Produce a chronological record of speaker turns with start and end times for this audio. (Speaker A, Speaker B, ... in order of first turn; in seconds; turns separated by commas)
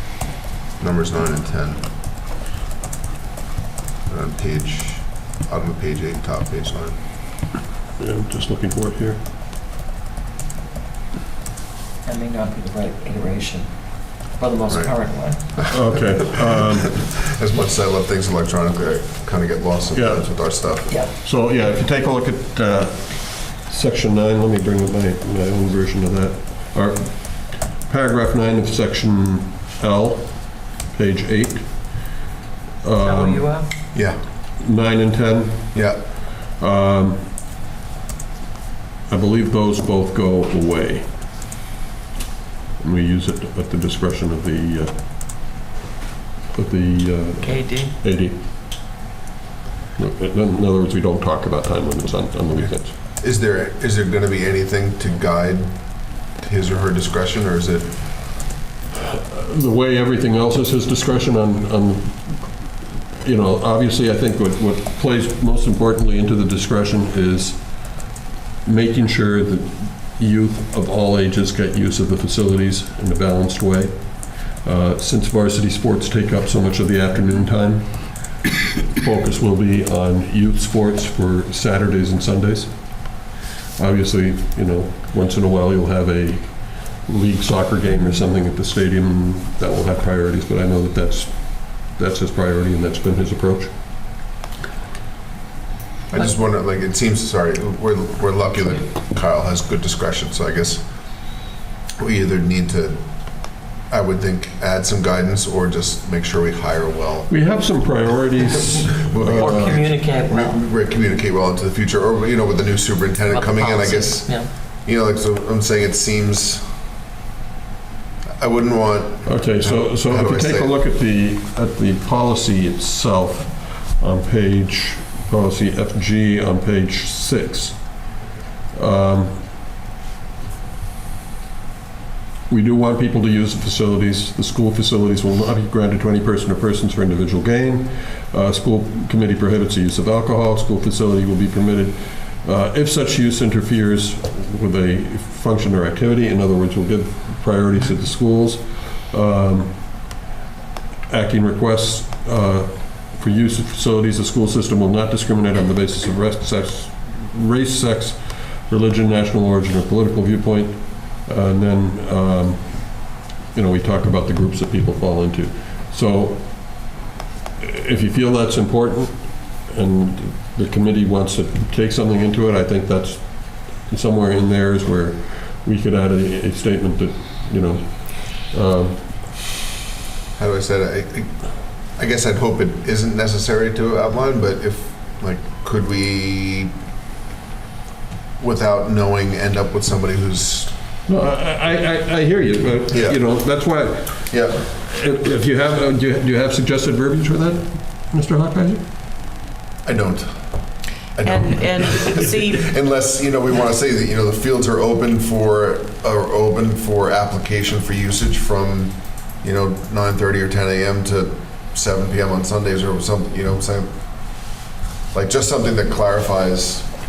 Speaker A: 0.8-1.8, Speaker A: 4.1-6.9, Speaker B: 8.0-9.2, Speaker C: 12.0-13.7, Speaker C: 14.4-15.4, Speaker B: 15.7-17.0, Speaker A: 16.6-20.9, Speaker B: 19.9-20.3, Speaker B: 21.0-32.1, Speaker B: 32.8-33.5, Speaker C: 33.0-33.7, Speaker B: 34.6-35.8, Speaker B: 36.6-37.2, Speaker B: 39.1-41.1, Speaker B: 42.8-44.9, Speaker B: 46.5-48.4, Speaker C: 47.4-48.0, Speaker B: 50.0-52.9, Speaker A: 52.6-55.7, Speaker A: 56.4-57.9, Speaker B: 59.0-62.7, Speaker B: 63.2-68.0, Speaker B: 68.6-78.3, Speaker B: 78.9-83.2, Speaker B: 83.8-93.7, Speaker A: 96.1-100.8, Speaker A: 102.0-103.0, Speaker A: 103.9-107.3, Speaker B: 107.3-109.8, Speaker A: 109.0-116.6, Speaker C: 109.3-110.6, Speaker C: 113.3-114.5, Speaker A: 118.4-120.7, Speaker B: 119.2-127.9, Speaker B: 128.7-129.3, Speaker B: 132.5-149.9, Speaker B: 151.1-166.8, Speaker B: 167.6-179.1, Speaker A: 180.3-181.3, Speaker A: 182.0-186.7, Speaker A: 188.4-190.7, Speaker B: 191.1-198.8, Speaker A: 192.9-193.2, Speaker A: 194.2-194.6, Speaker A: 199.8-200.3, Speaker A: 201.2-213.9, Speaker C: 201.2-202.7, Speaker A: 215.1-216.8